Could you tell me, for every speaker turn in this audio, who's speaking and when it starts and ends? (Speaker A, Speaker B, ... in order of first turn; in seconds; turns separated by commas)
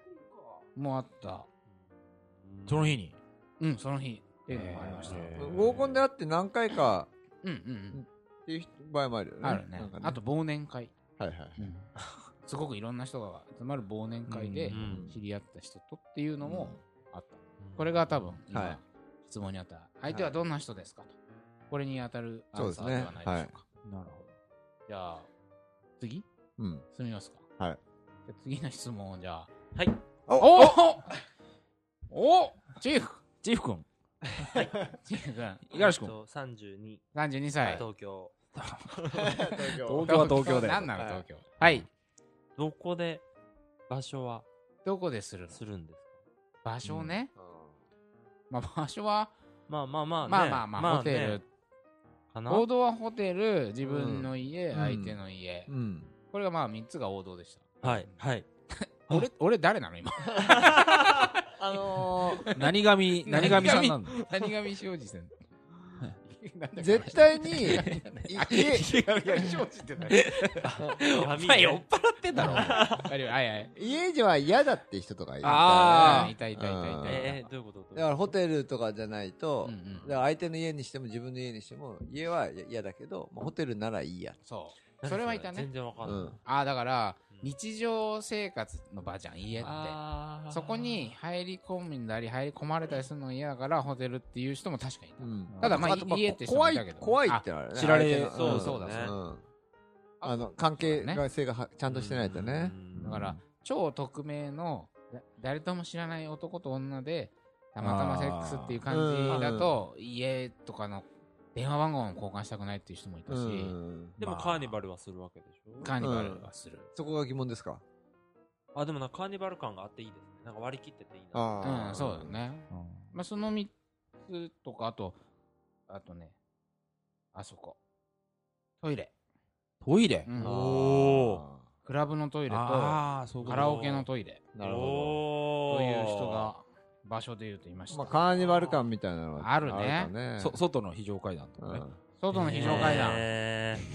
Speaker A: 0.7-1.5, Speaker B: 2.4-3.0, Speaker C: 2.7-3.2, Speaker A: 3.6-5.5, Speaker C: 4.5-6.0, Speaker D: 5.4-7.1, Speaker A: 7.4-8.0, Speaker D: 7.9-10.2, Speaker A: 9.4-10.9, Speaker D: 11.2-11.7, Speaker A: 11.6-11.9, Speaker A: 12.4-21.1, Speaker C: 14.3-14.9, Speaker B: 14.7-15.1, Speaker D: 14.7-15.2, Speaker D: 16.4-16.8, Speaker B: 17.6-18.0, Speaker D: 18.5-18.8, Speaker D: 20.1-20.3, Speaker A: 21.7-23.6, Speaker D: 22.5-23.5, Speaker C: 23.8-24.3, Speaker A: 24.9-25.3, Speaker A: 26.0-26.2, Speaker D: 26.6-26.9, Speaker A: 26.9-27.4, Speaker A: 28.3-29.5, Speaker D: 30.3-30.8, Speaker A: 30.4-31.1, Speaker A: 32.1-33.2, Speaker C: 33.4-33.9, Speaker A: 35.0-35.7, Speaker C: 35.7-36.1, Speaker B: 35.7-37.0, Speaker A: 37.1-37.8, Speaker B: 37.6-38.4, Speaker C: 38.5-40.9, Speaker B: 38.9-39.4, Speaker D: 39.1-41.2, Speaker A: 40.0-41.9, Speaker B: 42.6-43.2, Speaker B: 43.9-44.5, Speaker A: 44.8-45.6, Speaker B: 45.5-46.2, Speaker A: 46.6-47.3, Speaker D: 47.3-47.7, Speaker A: 48.5-49.3, Speaker B: 49.7-51.4, Speaker A: 50.3-51.4, Speaker B: 52.3-52.7, Speaker A: 52.5-55.7, Speaker D: 53.8-56.1, Speaker A: 56.3-58.2, Speaker B: 57.8-58.5, Speaker A: 58.7-61.4, Speaker D: 60.3-60.6, Speaker B: 60.6-61.1, Speaker D: 61.5-62.5, Speaker A: 62.0-62.7, Speaker C: 62.5-64.2, Speaker A: 63.2-65.3, Speaker A: 66.2-73.7, Speaker D: 66.8-69.6, Speaker B: 71.0-73.1, Speaker C: 72.3-72.8, Speaker D: 73.7-77.3, Speaker C: 75.4-76.3, Speaker A: 75.4-77.5, Speaker B: 77.0-78.3, Speaker D: 77.9-84.4, Speaker A: 79.6-80.2, Speaker A: 84.4-85.7, Speaker B: 85.0-86.4, Speaker D: 86.0-86.4, Speaker A: 86.4-90.0, Speaker B: 89.6-91.1, Speaker A: 90.5-97.4, Speaker D: 95.2-99.4, Speaker C: 95.5-95.9, Speaker C: 97.7-98.8, Speaker B: 98.3-99.2, Speaker A: 98.5-99.1, Speaker A: 100.2-101.2, Speaker D: 100.2-103.0, Speaker B: 101.9-103.2, Speaker C: 103.0-103.3, Speaker A: 103.0-114.6, Speaker C: 107.8-108.8, Speaker D: 108.9-109.7, Speaker D: 113.3-114.2, Speaker B: 114.2-116.0, Speaker A: 115.8-116.9, Speaker D: 116.0-117.8, Speaker B: 118.7-122.0, Speaker D: 121.3-122.4, Speaker A: 121.6-123.7, Speaker C: 122.7-123.1, Speaker A: 124.2-125.2, Speaker A: 125.9-126.3, Speaker A: 127.3-127.8, Speaker A: 128.8-129.1, Speaker C: 129.8-130.3, Speaker A: 130.2-130.7, Speaker D: 130.4-131.6, Speaker B: 130.4-131.4, Speaker A: 131.8-134.4, Speaker C: 132.5-133.9, Speaker B: 133.4-134.1, Speaker D: 134.5-135.2, Speaker B: 134.6-136.5, Speaker A: 135.7-138.2, Speaker D: 137.9-140.6, Speaker B: 138.4-138.8, Speaker A: 139.4-140.1, Speaker C: 140.4-143.2, Speaker D: 141.6-142.0, Speaker A: 142.2-143.3, Speaker B: 142.5-143.8, Speaker D: 142.7-142.9